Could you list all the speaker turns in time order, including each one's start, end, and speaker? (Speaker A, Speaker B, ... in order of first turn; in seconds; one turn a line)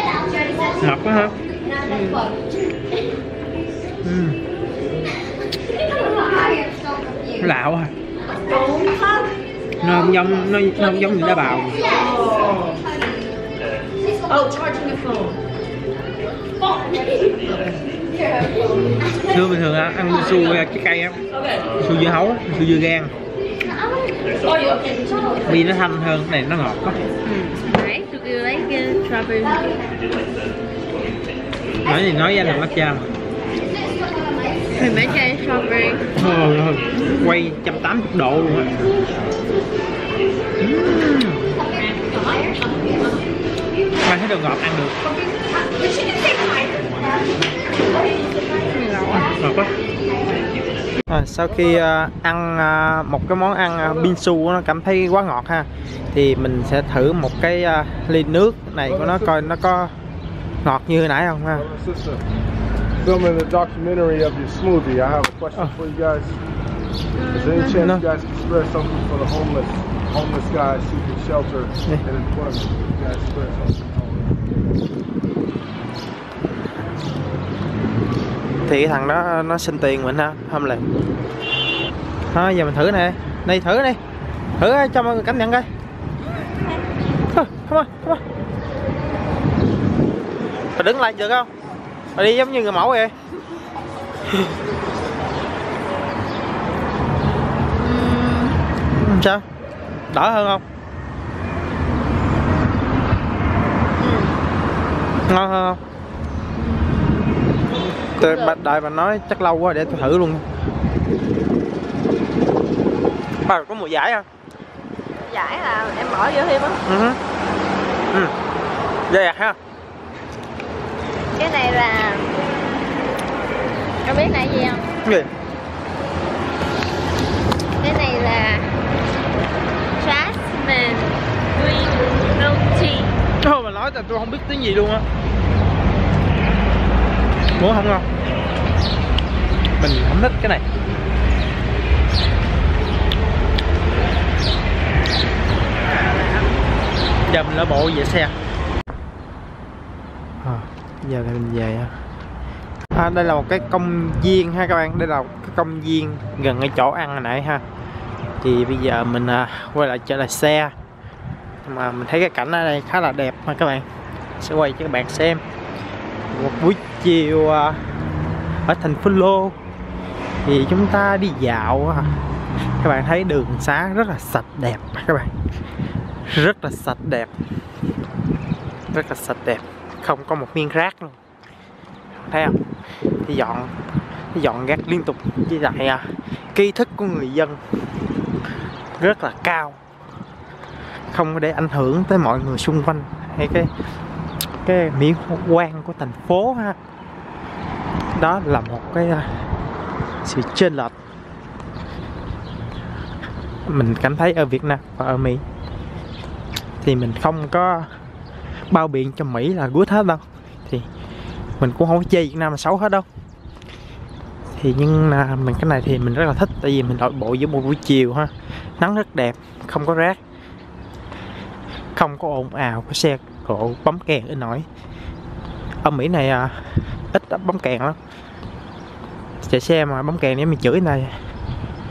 Speaker A: 0.8-1.4
Speaker B: 1.9-2.3
Speaker A: 4.0-4.4
Speaker A: 7.4-7.9
Speaker B: 8.5-8.9
Speaker A: 9.8-11.9
Speaker A: 19.2-21.2
Speaker A: 21.8-23.1
Speaker B: 23.6-23.9
Speaker A: 25.4-27.0
Speaker B: 27.2-29.7
Speaker A: 31.8-33.1
Speaker B: 34.7-36.1
Speaker A: 36.2-38.9
Speaker A: 40.6-41.5
Speaker A: 44.0-45.0
Speaker B: 48.6-49.4
Speaker A: 49.4-49.7
Speaker A: 51.1-59.9
Speaker C: 58.9-59.2
Speaker A: 60.6-61.7
Speaker C: 61.6-62.2
Speaker C: 63.0-66.4
Speaker B: 67.2-67.8
Speaker C: 67.3-74.4
Speaker A: 67.7-68.0
Speaker A: 78.7-80.8
Speaker A: 82.3-84.0
Speaker A: 84.6-85.7
Speaker A: 87.3-88.2
Speaker A: 90.8-91.5
Speaker A: 92.2-93.1
Speaker B: 97.8-98.6
Speaker A: 98.9-99.4
Speaker A: 100.1-100.6
Speaker B: 104.0-104.3
Speaker A: 105.3-105.8
Speaker B: 108.2-108.6
Speaker A: 108.2-110.4
Speaker A: 113.4-114.3
Speaker B: 115.2-116.8
Speaker A: 116.8-117.2
Speaker A: 119.1-119.6
Speaker B: 121.4-122.6
Speaker B: 124.0-125.0
Speaker A: 125.0-125.3
Speaker B: 127.8-128.7
Speaker B: 130.0-133.1
Speaker A: 133.4-135.0
Speaker A: 137.6-138.1
Speaker A: 139.8-140.6
Speaker A: 147.3-148.3
Speaker A: 150.4-151.9
Speaker A: 152.9-157.6
Speaker A: 158.4-160.7
Speaker A: 161.6-163.9
Speaker A: 164.4-165.4
Speaker A: 166.3-167.8
Speaker A: 168.7-169.6
Speaker A: 170.4-172.1
Speaker A: 172.8-175.3
Speaker A: 176.3-177.3
Speaker A: 178.9-181.2
Speaker A: 182.2-182.6
Speaker A: 183.2-183.7
Speaker A: 184.3-187.6
Speaker A: 189.0-189.8
Speaker A: 191.1-193.7
Speaker A: 194.6-196.8
Speaker A: 198.2-199.5
Speaker A: 200.2-200.9
Speaker A: 203.7-205.4
Speaker A: 206.8-207.9
Speaker A: 208.7-210.9
Speaker A: 211.6-213.1
Speaker A: 214.6-220.2
Speaker A: 221.9-224.7
Speaker A: 225.8-228.0
Speaker A: 229.4-231.2